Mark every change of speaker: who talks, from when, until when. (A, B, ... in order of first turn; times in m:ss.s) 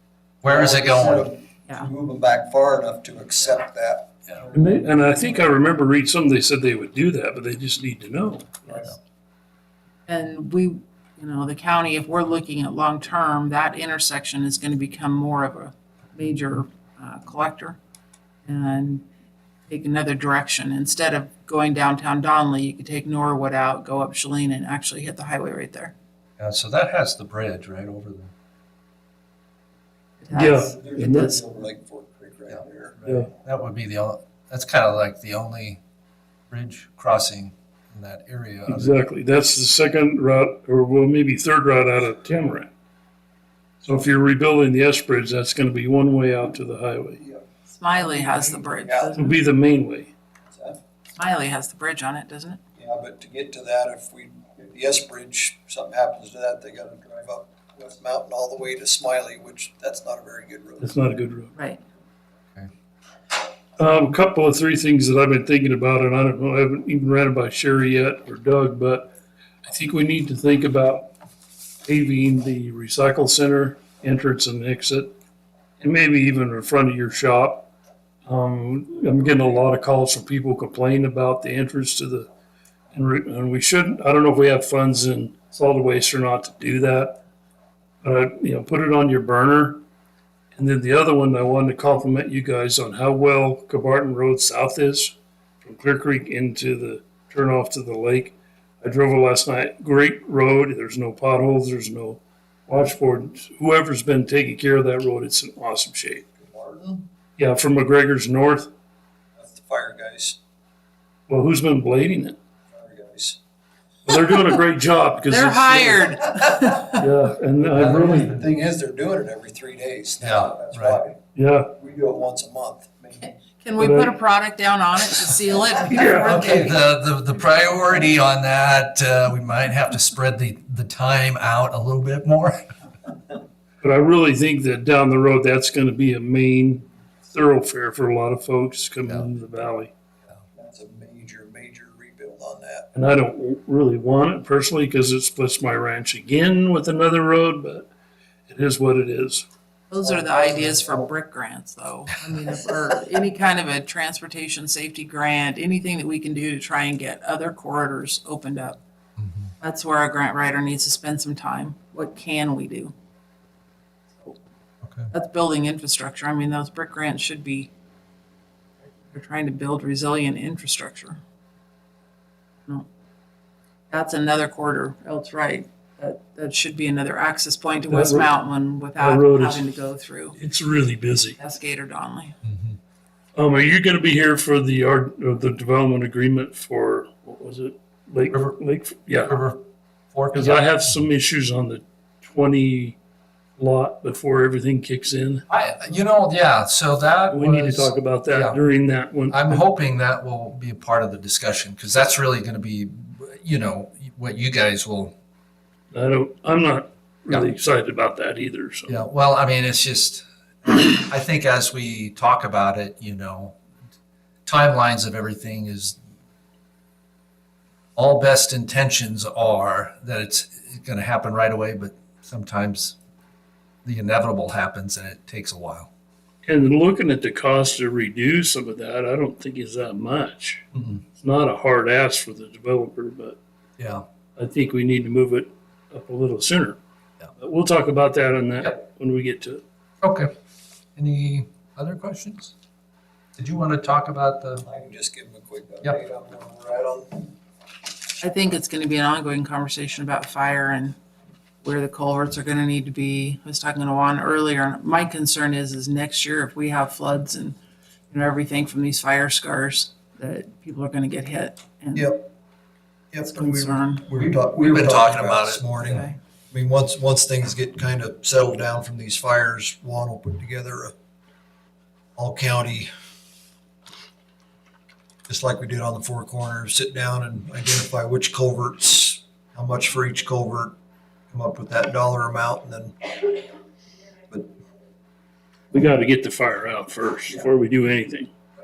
0:00.4-0:01.3 A
0:00.4-0:05.4 B
0:04.5-0:08.7 C
0:08.7-0:09.0 B
0:10.1-0:17.8 D
0:18.5-0:19.0 D
0:19.7-0:26.0 D
0:26.4-0:28.3 A
0:30.2-0:31.4 D
0:30.3-0:31.3 C
0:30.7-0:33.0 B
0:32.5-0:35.8 A
0:36.5-0:38.9 A
0:38.7-0:42.7 C
0:43.8-0:47.2 C
0:47.2-0:49.2 B
0:47.7-0:49.4 D
0:49.2-0:50.1 C
0:50.5-0:50.8 B
0:51.2-0:52.6 D
0:52.8-1:01.0 B
1:00.8-1:01.5 C
1:01.6-1:01.8 D
1:03.8-1:09.1 C
1:09.6-1:11.1 C
1:11.8-1:15.1 C
1:15.8-1:17.7 C
1:18.3-1:22.3 C
1:22.9-1:27.2 C
1:28.0-1:29.8 C
1:30.6-1:46.3 C
1:46.3-1:47.0 B
1:47.4-1:48.7 C
1:49.4-1:50.4 B
1:51.3-1:52.4 C
1:52.7-1:53.4 B
1:54.0-1:56.1 C
1:55.3-1:57.1 D
1:57.0-1:58.4 C
1:57.7-1:58.5 A
1:57.7-2:01.2 B
2:00.2-2:01.0 A
2:01.4-2:01.7 C
2:01.7-2:03.3 B
2:03.4-2:06.9 D
2:03.8-2:04.2 C
2:05.9-2:06.4 C
2:06.1-2:12.6 A
2:13.8-2:19.9 C
2:20.5-2:22.9 B
2:22.9-2:27.9 C
2:28.5-2:29.5 C
2:29.9-2:38.8 D
2:30.0-2:31.1 B
2:39.2-2:39.5 A
2:39.6-2:42.9 D
2:44.8-2:45.1 A
2:45.1-2:47.7 D
2:49.1-2:51.2 D
2:53.9-3:00.4 D
2:57.9-2:58.3 C
2:59.0-2:59.7 C
3:00.4-3:01.4 C
3:01.4-3:02.4 D
3:02.4-3:02.8 A
3:03.4-3:09.3 C
3:09.2-3:09.6 A
3:10.1-3:10.8 A
3:10.3-3:13.0 C
3:13.6-3:15.4 C
3:15.5-3:18.6 A
3:17.3-3:19.6 C
3:19.3-3:25.1 A
3:25.9-3:29.0 C
3:28.9-3:33.6 A
3:34.5-3:36.0 A
3:38.0-3:43.0 A
3:43.8-3:45.9 A
3:46.5-3:53.4 C
3:50.7-3:51.0 A
3:53.8-3:54.0 A
3:54.4-3:56.8 C
3:57.4-3:59.6 C
4:00.0-4:00.3 A
4:01.0-4:02.5 A
4:03.4-4:04.6 A
4:04.6-4:07.4 B
4:08.2-4:11.0 D
4:11.6-4:17.6 D
4:18.1-4:22.1 D
4:22.0-4:22.2 B
4:23.1-4:30.9 B
4:23.2-4:24.1 D
4:24.2-4:26.0 A
4:25.8-4:26.2 D
4:32.2-4:32.9 B
4:35.3-4:40.8 B
4:41.3-4:43.1 B
4:45.7-4:48.3 C